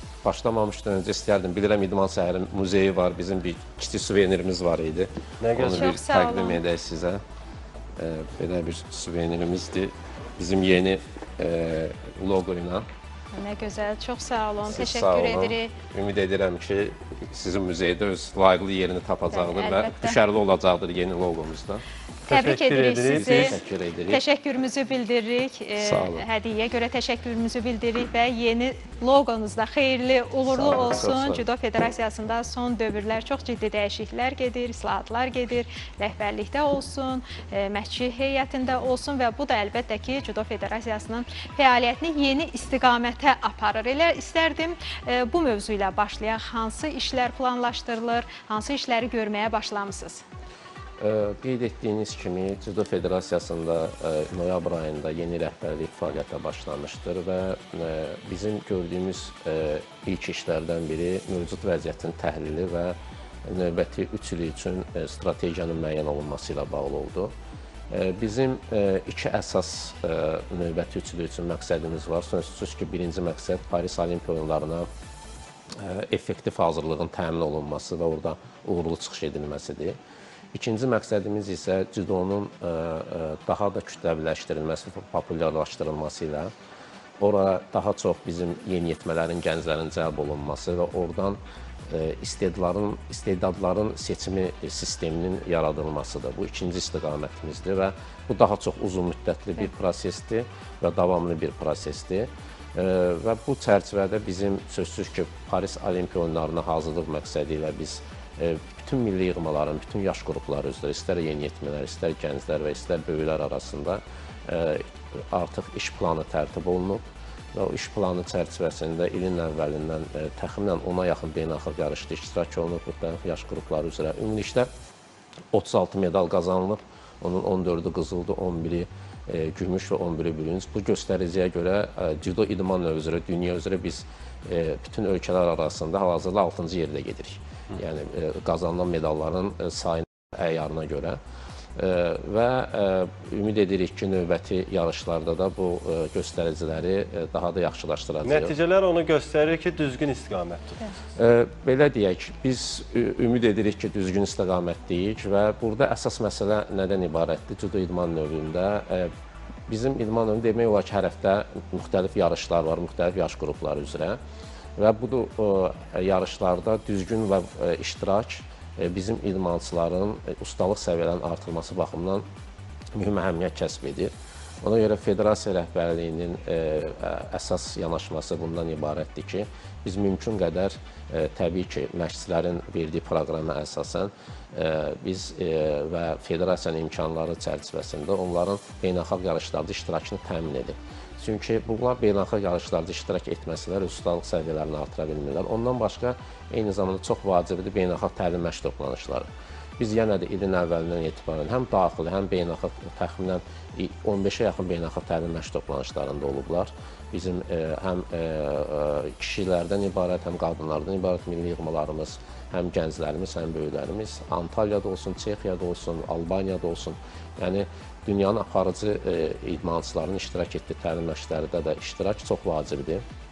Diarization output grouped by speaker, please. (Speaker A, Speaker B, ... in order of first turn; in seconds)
Speaker A: 0.2-7.2, 8.0-12.8, 14.7-21.8, 23.1-24.2, 25.8-26.2, 30.5-31.4, 51.0-67.3, 67.9-74.9, 75.8-80.0, 80.5-86.5, 87.2-117.0, 117.5-124.7, 125.5-141.2, 141.8-148.5, 151.2-159.1, 159.7-164.2, 164.8-172.2, 173.0-223.0
Speaker B: 5.4-6.0, 22.3-23.5, 148.2-150.8
Speaker C: 5.8-6.6, 13.3-15.7, 19.3-20.2, 22.3-50.2